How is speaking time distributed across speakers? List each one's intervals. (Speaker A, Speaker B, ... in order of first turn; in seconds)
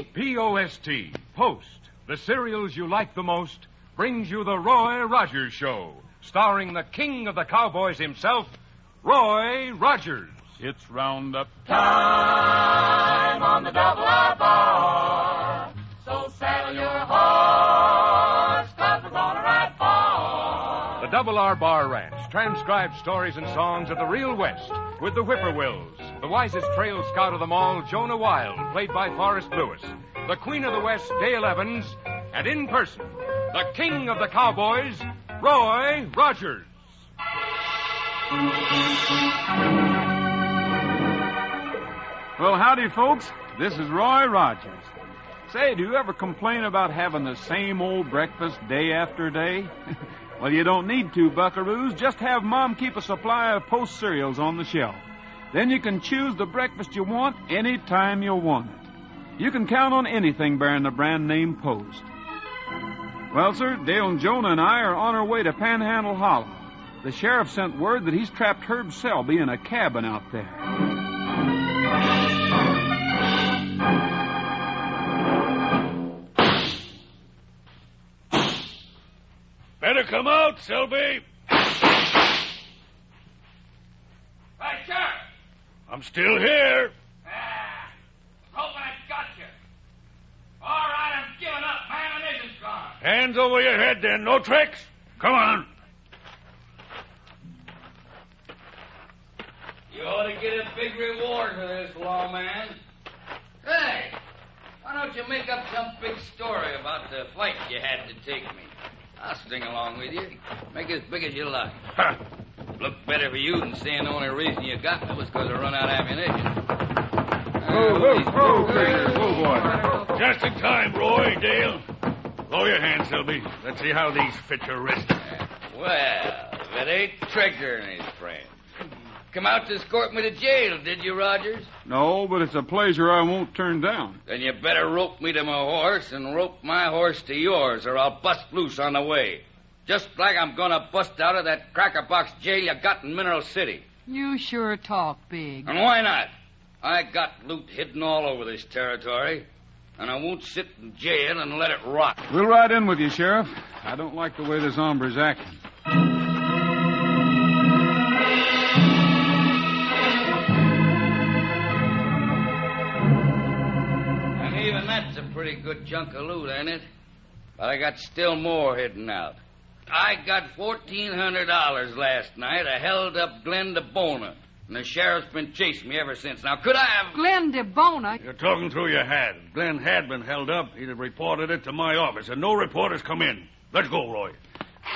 Speaker A: 0.1-10.4, 21.0-36.7
Speaker B: 10.6-11.6, 42.4-44.9, 45.5-49.7, 50.4-58.9, 59.4-62.1, 63.3-70.6, 117.7-119.7, 131.9-134.2, 152.3-155.6
Speaker C: 13.5-14.3, 16.6-17.2, 19.0-19.6
Speaker D: 79.8-81.2, 85.9-86.9, 93.0-95.7, 120.1-121.8, 122.5-125.2, 178.2-184.4
Speaker E: 84.6-85.2, 87.3-87.9, 88.5-89.5, 90.6-93.0, 99.9-102.8, 103.6-104.2, 104.8-111.8, 112.8-116.6, 117.6-119.3, 125.7-128.5, 129.3-131.7, 134.3-143.8, 145.7-149.5, 150.0-152.2, 164.4-166.8, 167.6-177.2
Speaker F: 144.1-145.7, 177.1-178.2